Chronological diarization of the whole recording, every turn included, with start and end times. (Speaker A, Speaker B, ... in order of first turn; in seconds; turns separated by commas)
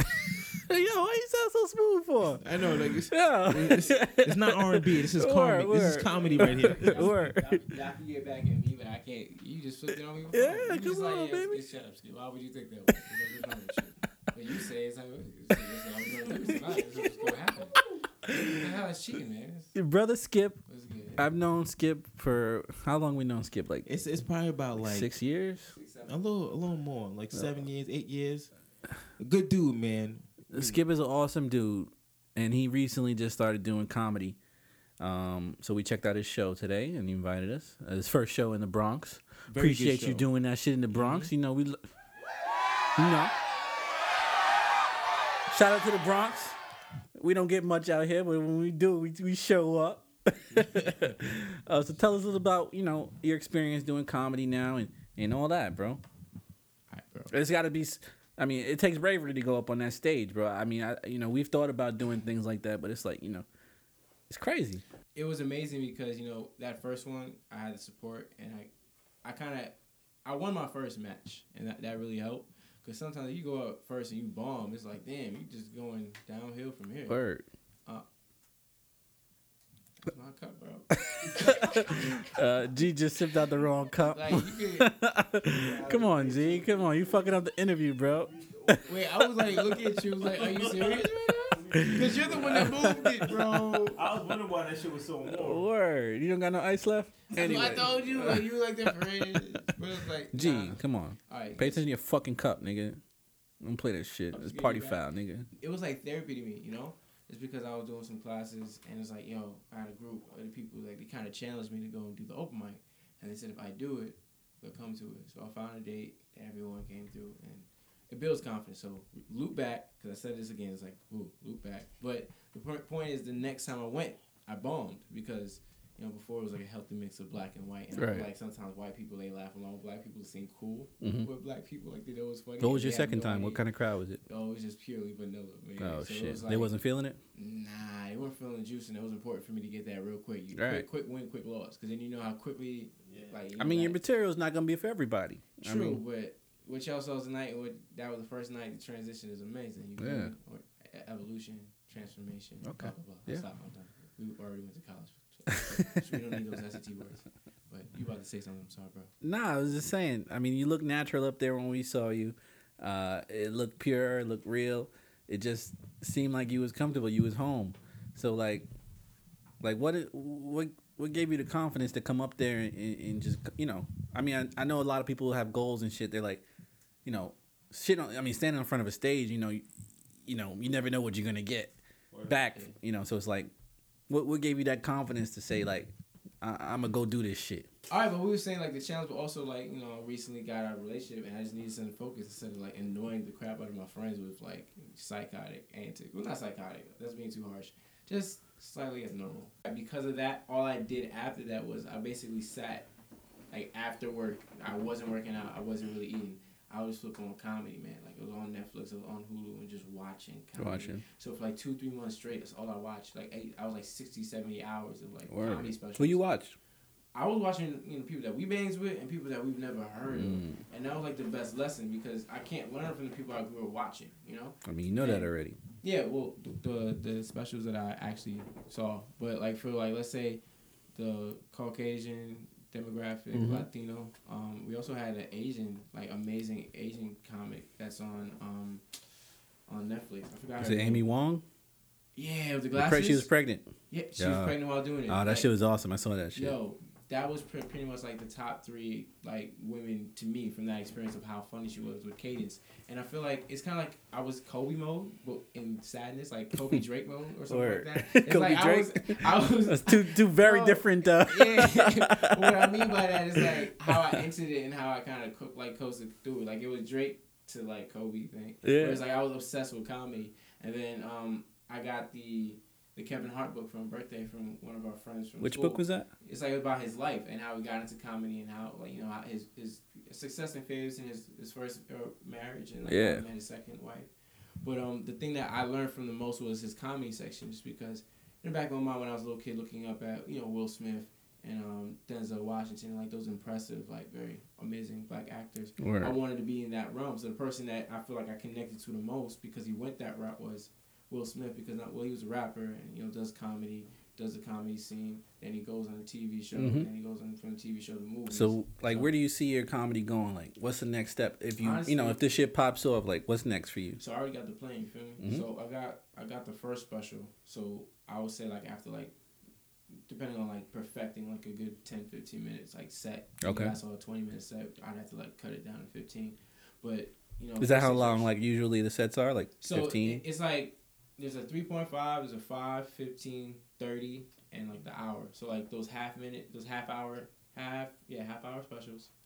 Speaker A: 0.1-2.4, Speaker B: 2.4-7.1, Speaker A: 3.1-7.6, Speaker C: 6.1-19.7, Speaker A: 10.3-11.6, Speaker A: 16.3-17.3, Speaker A: 19.7-20.6, Speaker C: 20.7-21.3, Speaker A: 21.2-23.9, Speaker B: 23.9-25.1, Speaker A: 24.7-25.7, Speaker C: 25.7-26.2, Speaker B: 26.1-28.5, Speaker B: 29.2-30.8, Speaker A: 30.5-34.4, Speaker A: 35.0-41.8, Speaker B: 39.5-40.2, Speaker B: 40.9-41.3, Speaker A: 43.0-43.3, Speaker A: 45.5-46.6, Speaker A: 47.1-56.0, Speaker C: 56.9-57.3, Speaker A: 57.3-63.5, Speaker A: 64.3-64.8, Speaker C: 65.1-68.7, Speaker C: 69.2-77.2, Speaker A: 77.1-77.4, Speaker C: 80.0-81.8, Speaker A: 80.9-88.9, Speaker C: 84.0-84.9, Speaker B: 85.7-86.0, Speaker C: 85.7-87.0, Speaker C: 88.8-94.0, Speaker B: 90.4-95.7, Speaker A: 91.7-93.3, Speaker A: 95.2-99.4, Speaker C: 97.3-101.9, Speaker A: 100.3-103.0, Speaker A: 103.6-105.5, Speaker C: 104.3-105.0, Speaker C: 105.6-133.6, Speaker A: 127.9-128.3, Speaker A: 131.0-131.3, Speaker A: 132.6-134.2, Speaker C: 134.3-136.7, Speaker A: 135.8-137.2, Speaker C: 137.3-144.0, Speaker A: 140.5-140.8, Speaker B: 143.1-143.3, Speaker A: 143.6-146.0, Speaker C: 145.6-159.1, Speaker A: 150.0-150.3, Speaker A: 152.6-153.4, Speaker A: 159.2-168.7, Speaker A: 169.6-176.4, Speaker A: 177.0-179.6, Speaker A: 180.2-181.7, Speaker B: 182.1-182.4, Speaker A: 182.3-183.5, Speaker A: 184.1-187.7, Speaker C: 187.9-202.9, Speaker C: 203.5-216.2, Speaker A: 210.6-211.0, Speaker A: 215.3-216.5, Speaker C: 217.1-225.3, Speaker A: 220.1-220.6, Speaker A: 224.6-225.6, Speaker C: 225.8-230.4, Speaker C: 230.9-239.0, Speaker A: 233.3-233.7, Speaker C: 239.7-241.0, Speaker A: 240.6-241.4, Speaker C: 242.2-243.3, Speaker A: 242.7-243.6, Speaker C: 243.9-245.5, Speaker A: 244.2-246.6, Speaker C: 246.3-284.1, Speaker A: 257.5-264.1, Speaker A: 268.6-269.0, Speaker A: 275.4-276.1, Speaker A: 282.9-283.2, Speaker C: 284.6-309.1, Speaker A: 295.8-296.1, Speaker A: 306.6-306.9, Speaker A: 308.3-314.0, Speaker C: 311.6-312.3, Speaker C: 314.0-319.1, Speaker A: 315.2-315.4, Speaker C: 320.1-328.3, Speaker A: 323.4-323.8, Speaker A: 327.6-330.2, Speaker C: 329.6-339.1